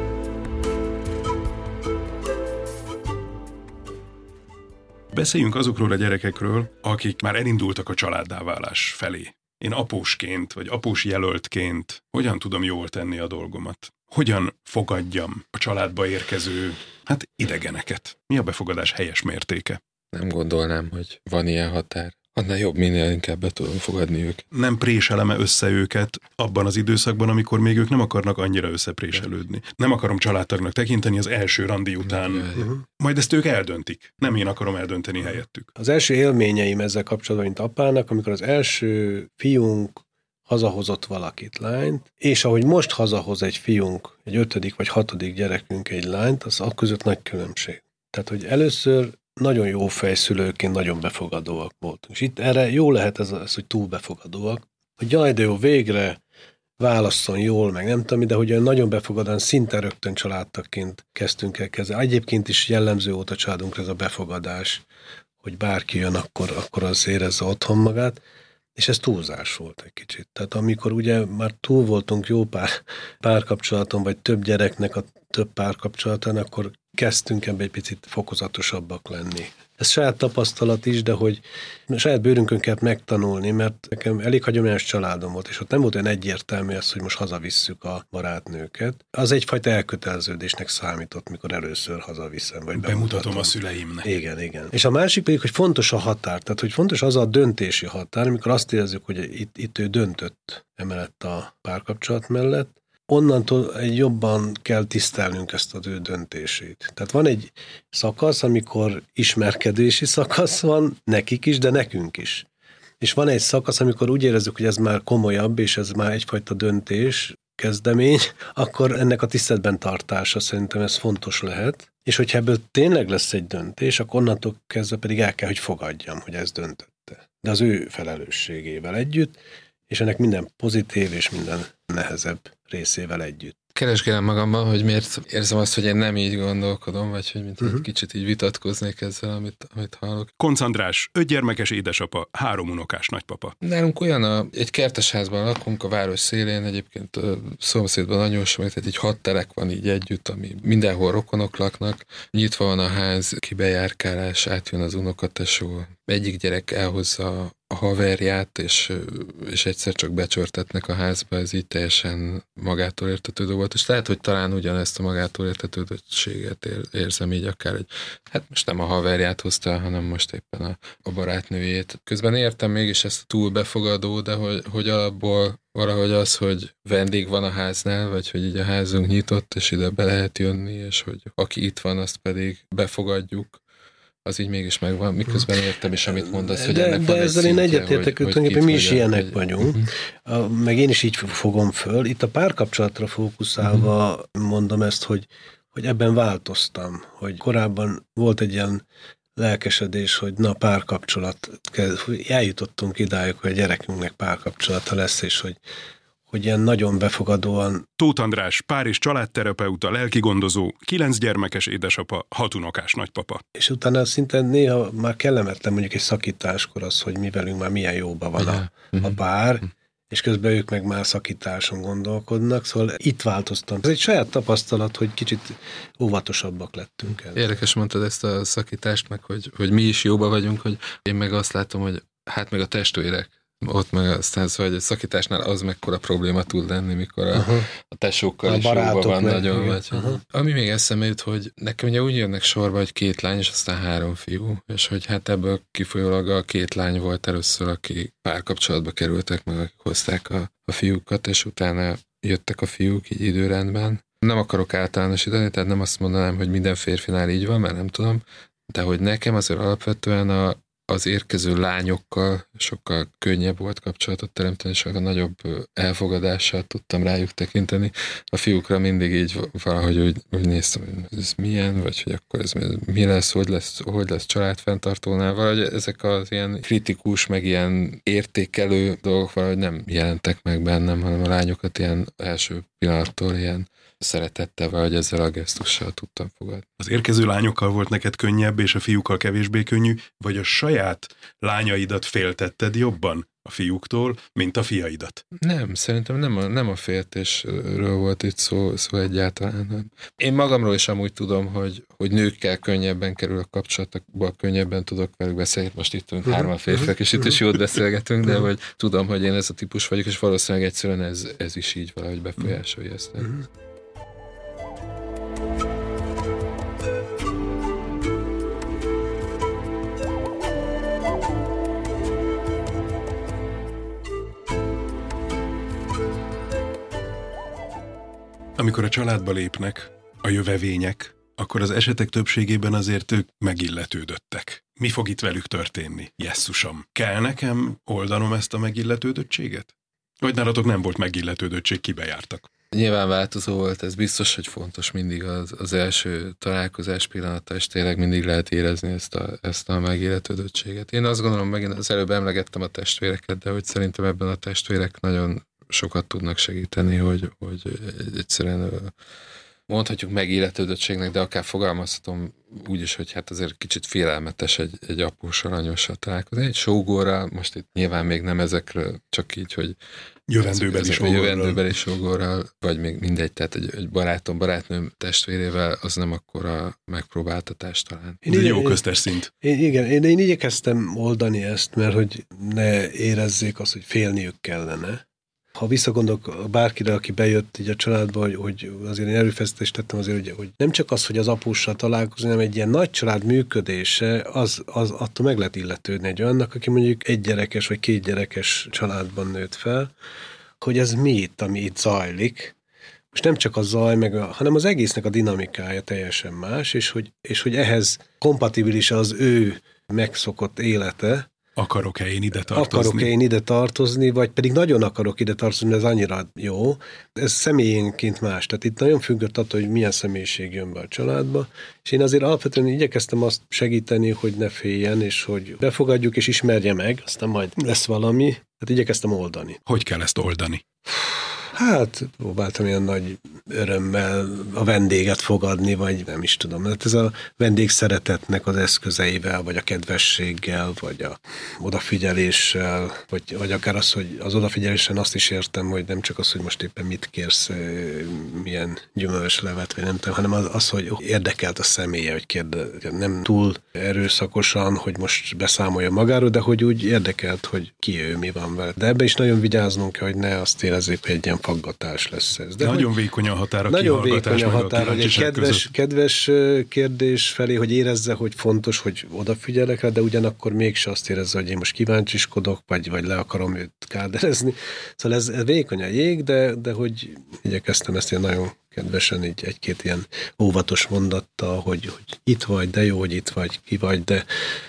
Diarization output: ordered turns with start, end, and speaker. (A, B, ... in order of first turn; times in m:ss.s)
0:05.1-0:19.8 A
0:20.1-0:24.4 B
0:24.5-0:35.7 A
0:32.0-0:32.7 B
0:32.6-0:32.8 C
0:35.8-0:56.2 C
0:56.8-1:04.8 C
1:05.4-1:08.2 C
1:08.8-1:52.4 C
1:32.7-1:34.1 A
1:53.0-2:09.4 C
2:09.9-2:13.6 C
2:13.7-2:20.3 B
2:20.4-2:23.5 A
2:23.6-3:03.6 B
3:04.2-3:09.9 B
3:06.2-3:18.8 C
3:19.4-3:25.6 C
3:26.3-3:27.8 C
3:28.0-3:33.4 A
3:33.5-3:47.4 C
3:38.4-3:39.0 B
3:47.3-4:46.6 B
3:57.3-3:57.7 C
3:58.4-4:00.2 C
4:46.8-4:55.2 A
4:55.4-5:13.4 B
5:28.6-5:42.5 A
5:42.7-5:58.9 B
5:59.7-6:09.8 B
6:10.3-6:11.6 A
6:10.4-6:18.2 B
6:18.2-6:18.8 C
6:18.3-6:19.3 A
6:19.4-6:25.0 C
6:25.5-6:39.9 C
6:40.6-6:42.5 C
6:43.1-6:51.3 C
6:51.6-6:53.1 A
6:52.5-7:09.6 C
7:09.7-7:10.6 A
7:11.5-7:42.9 C
7:42.6-7:45.7 A
7:43.7-8:04.2 C